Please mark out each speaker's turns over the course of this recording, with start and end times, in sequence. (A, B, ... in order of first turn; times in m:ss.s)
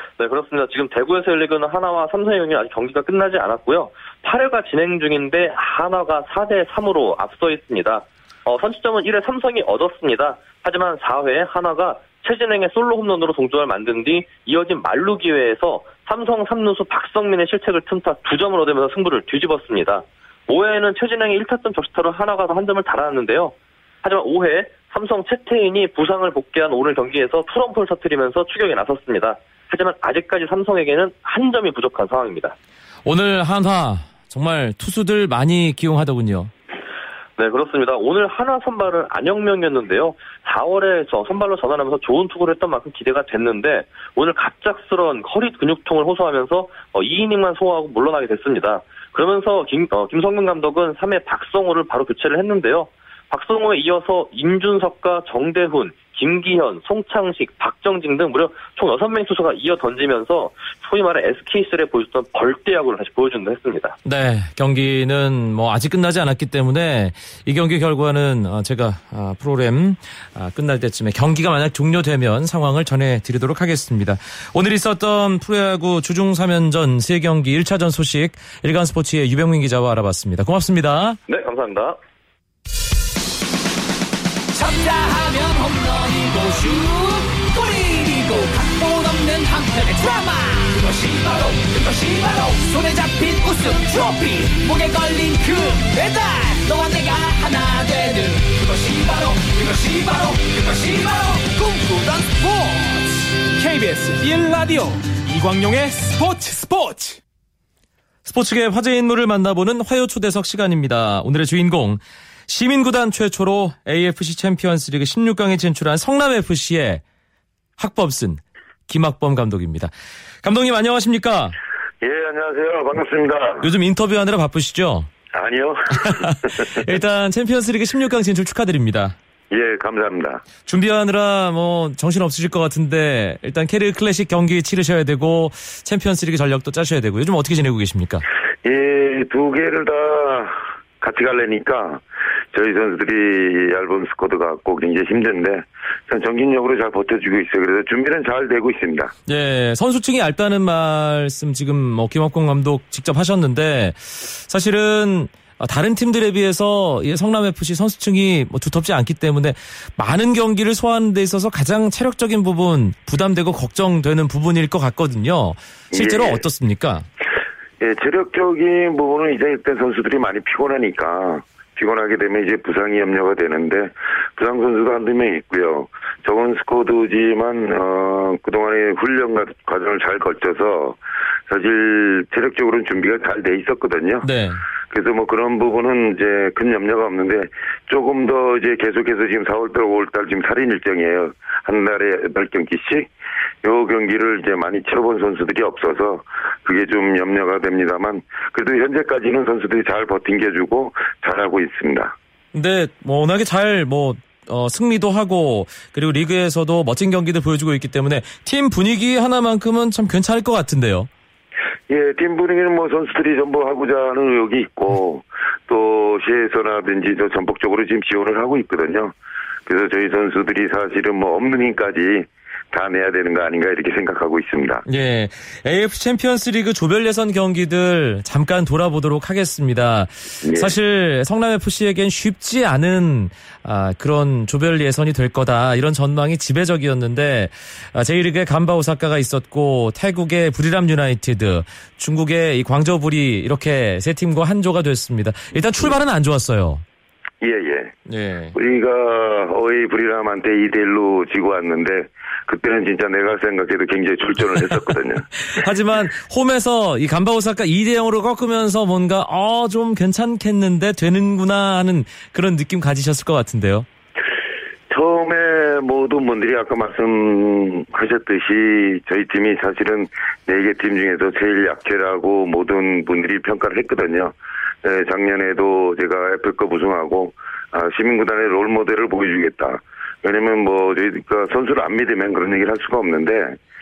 0:00.2-0:32.6 A
0:33.0-0:36.5 B
0:37.4-1:04.0 A
1:04.0-1:21.2 B
1:21.3-1:22.0 A
1:24.5-1:47.2 C
1:48.2-1:57.0 B
1:57.8-1:59.9 B
2:00.4-2:01.5 B
2:02.0-2:03.7 D
2:03.6-2:05.1 B
2:05.3-2:06.7 D
2:06.0-2:09.1 B
2:09.5-2:10.4 D
2:10.6-2:18.2 B
2:18.6-2:29.1 D
2:29.3-2:47.0 B
2:45.9-2:46.4 D
2:47.8-3:04.3 D
3:04.2-3:04.6 B
3:04.9-3:13.1 D
3:13.6-3:22.1 D
3:22.5-3:31.1 B
3:31.9-3:39.1 D
3:39.6-3:44.8 D
3:44.8-4:06.8 B
3:50.4-3:50.7 D
4:07.4-4:07.9 D
4:08.1-4:08.5 B
4:08.5-4:15.2 D
4:15.4-4:23.8 B
4:24.9-4:43.6 D